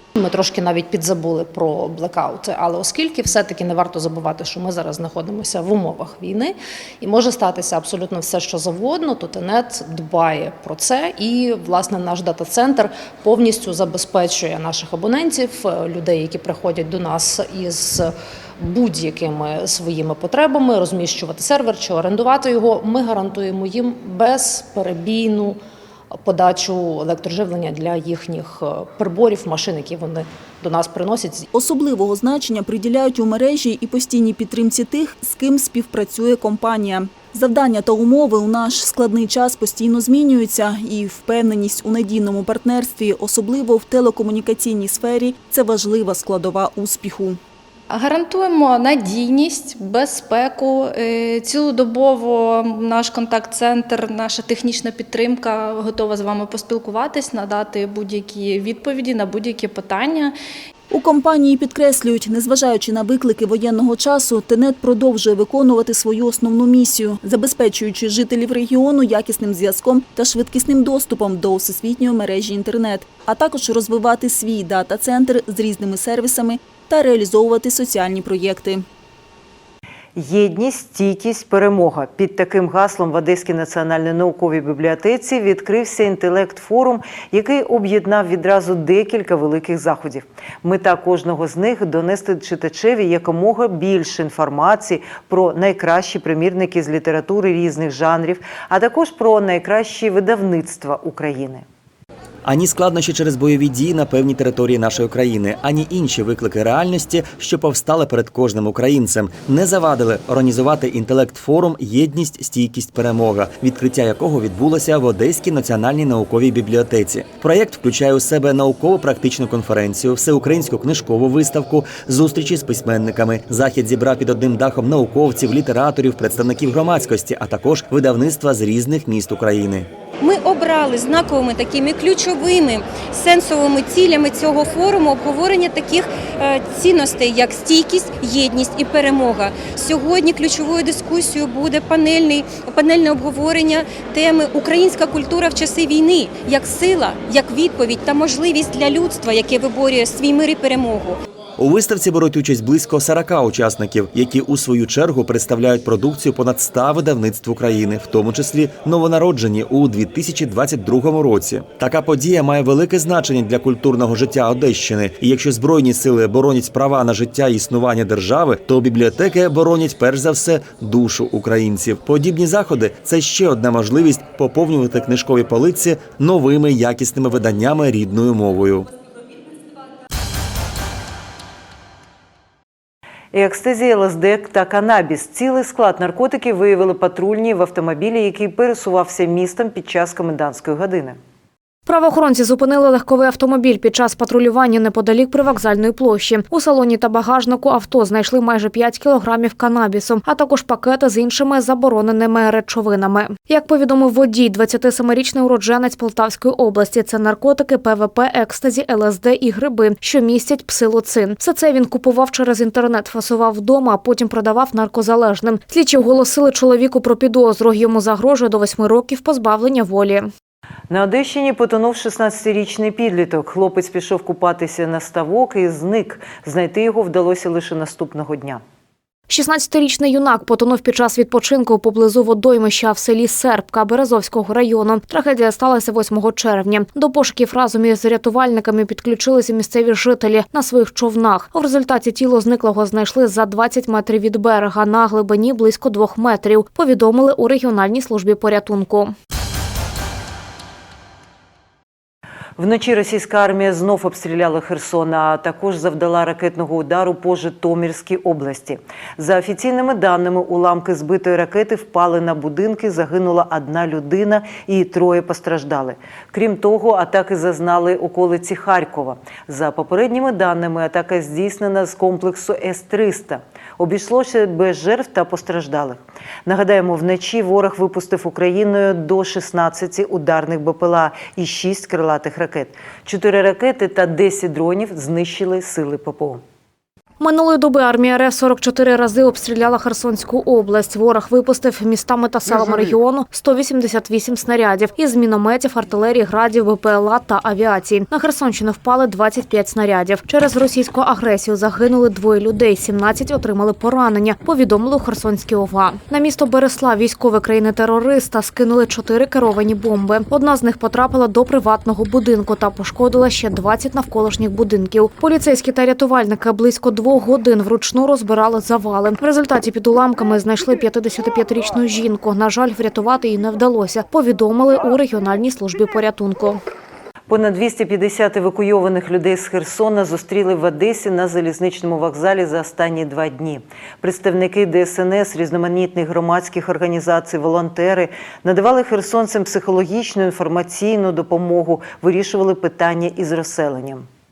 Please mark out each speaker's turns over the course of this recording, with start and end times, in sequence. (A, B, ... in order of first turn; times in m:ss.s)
0:00.2-0:25.6 A
0:26.1-0:31.5 A
0:31.5-0:47.4 B
0:47.9-1:00.4 C
1:00.9-1:18.8 B
1:20.2-1:41.6 D
1:42.4-2:09.9 E
2:10.2-2:31.2 F
2:31.6-2:58.9 E
3:03.3-3:11.2 D
3:11.9-3:40.3 G
3:40.9-3:48.6 D
3:49.3-4:09.1 G
4:12.6-4:46.4 D
4:47.2-5:26.6 G
5:27.3-5:44.1 D